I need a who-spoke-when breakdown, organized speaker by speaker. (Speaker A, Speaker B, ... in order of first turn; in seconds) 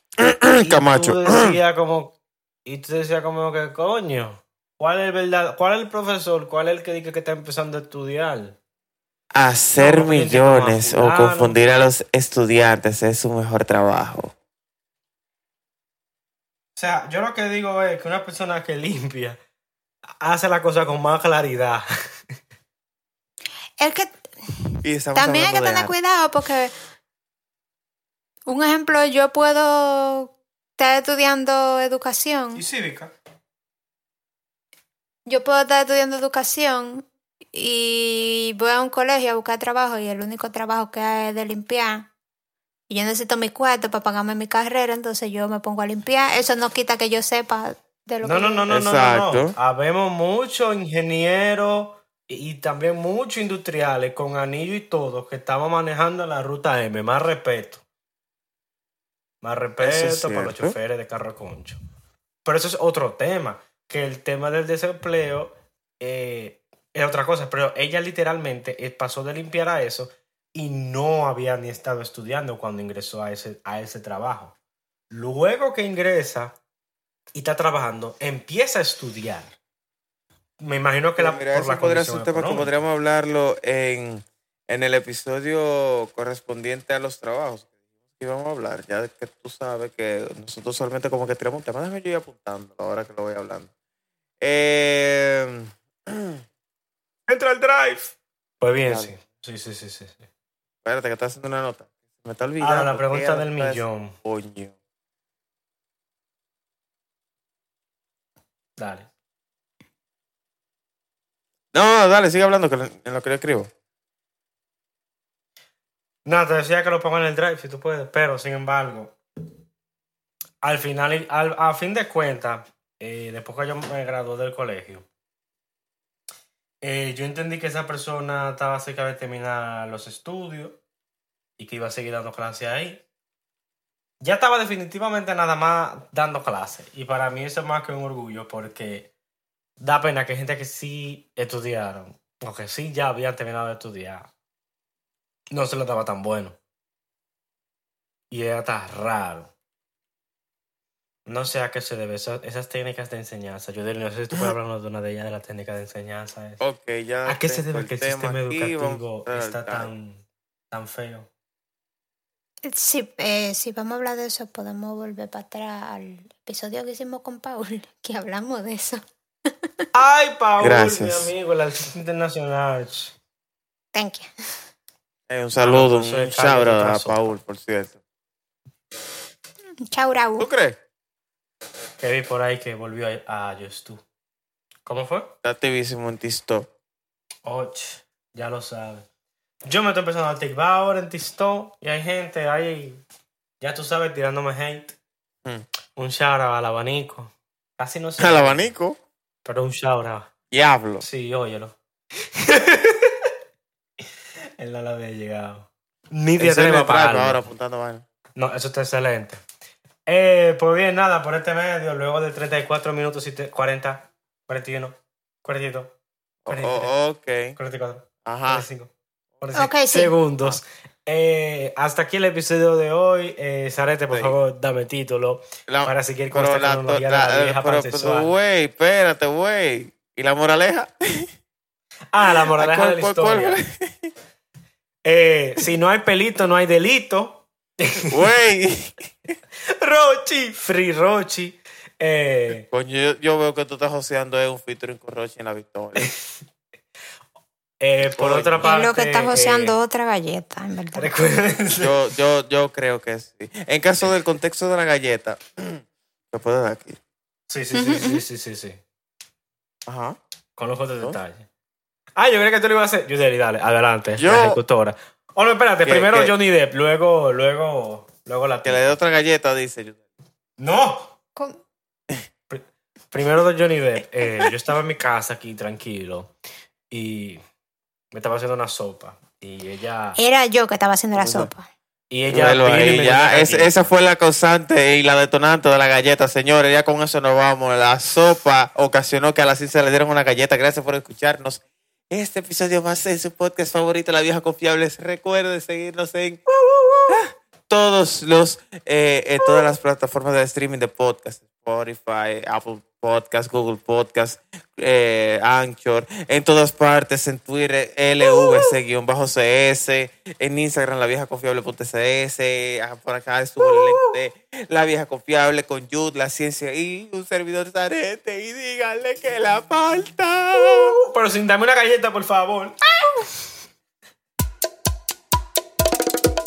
Speaker A: 0.2-1.6, 9.3-14.3, 24.8-25.9, 48.7-49.5, 59.8-60.8, 81.2-93.7, 94.4-96.4, 98.9-99.1, 100.8-104.7, 111.7-113.7, 156.6-159.9, 170.6-171.3, 175.3-178.0, 180.4-180.8, 185.4-186.7, 198.2-199.0, 200.5-201.0, 206.4-208.0, 216.4-217.6, 218.2-218.7, 224.1-224.3, 225.7-231.3, 232.5-234.1, 238.1-239.3, 242.7-246.1, 248.2-248.7, 251.8-257.0, 259.9-260.2, 264.2-264.6, 265.8-266.3, 268.6-270.0, 281.2-281.5, 282.3-296.4, 297.1-320.9
Speaker B: 0.6-8.6, 9.8-11.6, 16.8-19.4, 20.2-21.9, 32.5-33.1, 48.2-57.8, 59.4-61.8, 62.4-74.5, 75.1-76.5, 77.3-79.5, 80.6-82.7, 97.3-100.3, 102.6-104.1, 108.8-109.1, 116.2-119.2, 120.6-125.0, 126.8-130.8, 131.6-133.0, 134.2-139.1, 139.8-144.3, 145.5-146.6, 148.3-149.5, 151.2-156.6, 157.2-161.3, 169.9-173.1, 175.6-177.3, 182.0-184.0, 184.8-185.3, 187.4-189.1, 189.7-193.0, 193.6-194.9, 196.0-198.7, 199.4-200.3, 201.0-203.3, 204.6-207.4, 208.3-209.4, 210.1-215.9, 216.5-216.9, 217.6-228.3, 232.1-233.6, 235.0-238.1, 239.7-242.6, 245.9-246.2, 247.8-249.8, 250.9-251.9, 257.5-258.8, 260.6-261.5, 262.1-269.0, 270.6-271.1, 272.5-276.3, 276.9-277.4, 278.1-280.2, 282.1-283.9, 296.5-297.2, 313.6-314.1, 320.5-322.8
Speaker C: 23.8-24.1, 24.7-26.7, 28.4-32.6, 35.2-42.1, 42.9-48.7, 162.6-169.5, 173.9-174.3, 179.8-180.5, 219.5-220.1, 248.6-251.1, 257.7-258.2, 280.2-281.7